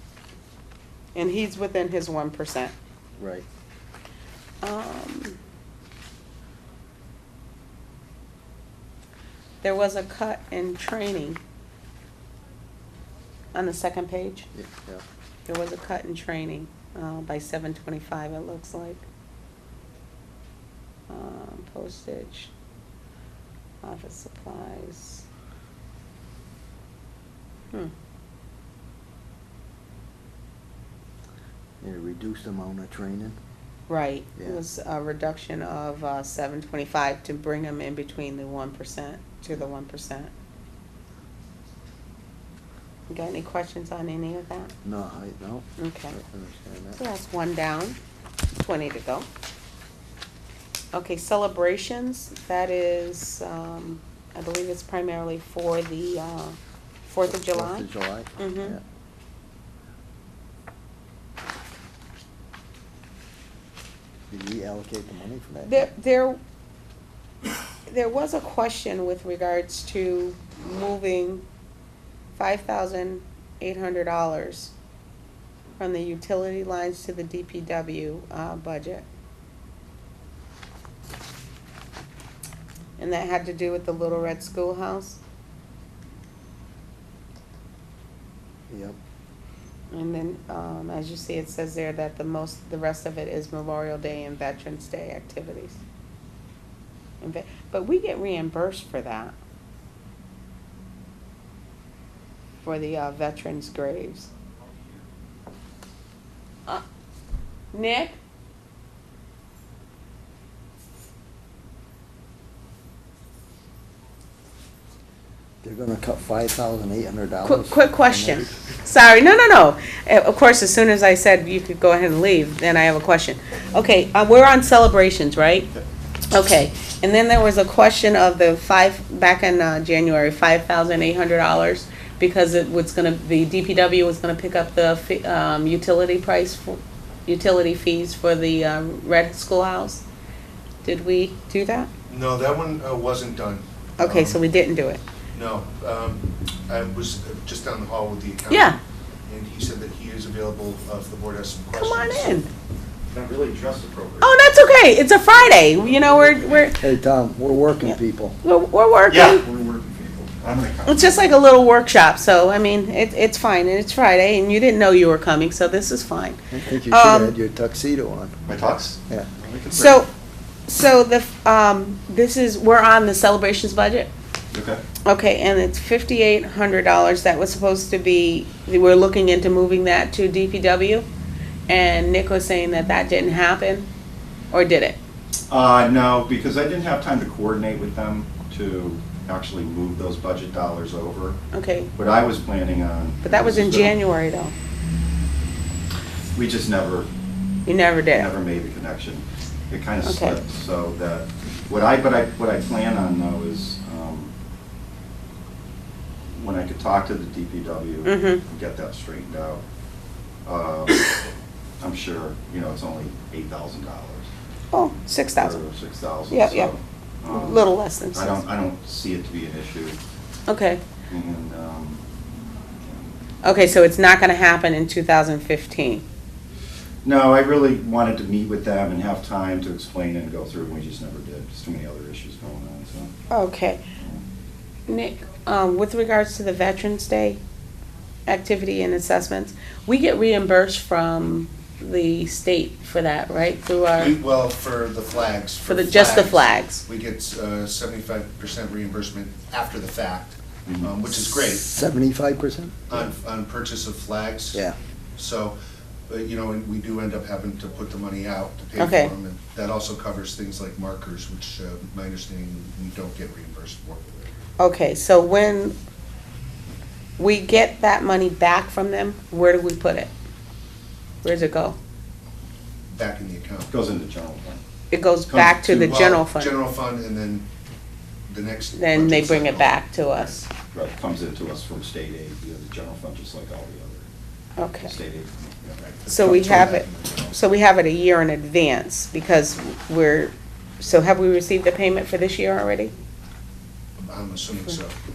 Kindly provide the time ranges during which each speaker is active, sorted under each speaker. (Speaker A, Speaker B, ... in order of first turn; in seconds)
Speaker A: 1.1-2.7, 4.6-5.4, 9.6-11.4, 13.5-14.5, 15.4-19.0, 21.1-22.5, 23.8-25.2, 33.9-40.3, 43.1-44.7, 45.8-46.1, 46.9-48.0, 48.5-49.3, 50.9-57.9, 58.4-58.8, 65.7-66.4, 67.9-71.4, 72.3-74.7, 75.8-79.0, 83.0-85.2, 89.9-95.8, 97.2-99.3, 102.6-104.3, 107.7-108.2, 117.4-125.7, 126.3-140.0, 140.8-141.9, 144.0-145.0, 148.5-148.8, 151.7-152.5, 154.2-156.8, 157.9-159.4, 160.8-167.3, 169.7-170.1, 170.7-174.1, 175.1-181.1, 181.7-183.9, 184.5-185.0, 191.5-191.9, 193.2-194.5, 197.6-198.3, 200.0-200.4, 208.0-208.4, 214.7-215.6, 216.3-216.7, 217.3-218.4, 220.5-220.8, 223.4-226.0, 233.3-233.8, 234.9-237.4, 238.3-244.2, 245.6-246.8, 258.8-259.1, 264.6-265.7, 267.2-270.1, 271.2-271.8, 274.9-276.6, 278.7-280.5, 284.6-284.9, 286.1-292.9
Speaker B: 3.2-3.5, 14.5-15.0, 31.8-33.4, 44.8-47.0, 57.3-58.8, 64.3-65.8, 88.7-89.0, 115.6-118.5, 156.8-158.3, 166.5-168.3, 251.6-253.1
Speaker C: 142.1-144.4, 145.3-152.4, 243.9-251.7, 252.9-254.6, 255.2-255.5, 256.1-264.3, 272.9-273.7, 275.4-277.4, 278.3-280.4, 285.8-287.4, 294.0-294.9
Speaker D: 153.1-154.4, 155.3-156.8, 159.1-161.2, 168.4-170.0, 174.5-174.8, 185.5-191.4, 192.0-194.0, 196.3-197.1, 198.1-204.3, 206.3-209.6, 210.4-211.0, 211.8-214.3, 215.4-220.0, 221.1-222.0, 222.8-223.1, 227.0-233.1, 234.0-234.2, 250.7-250.9, 273.7-274.6, 275.3-275.8, 280.7-284.1, 284.8-285.8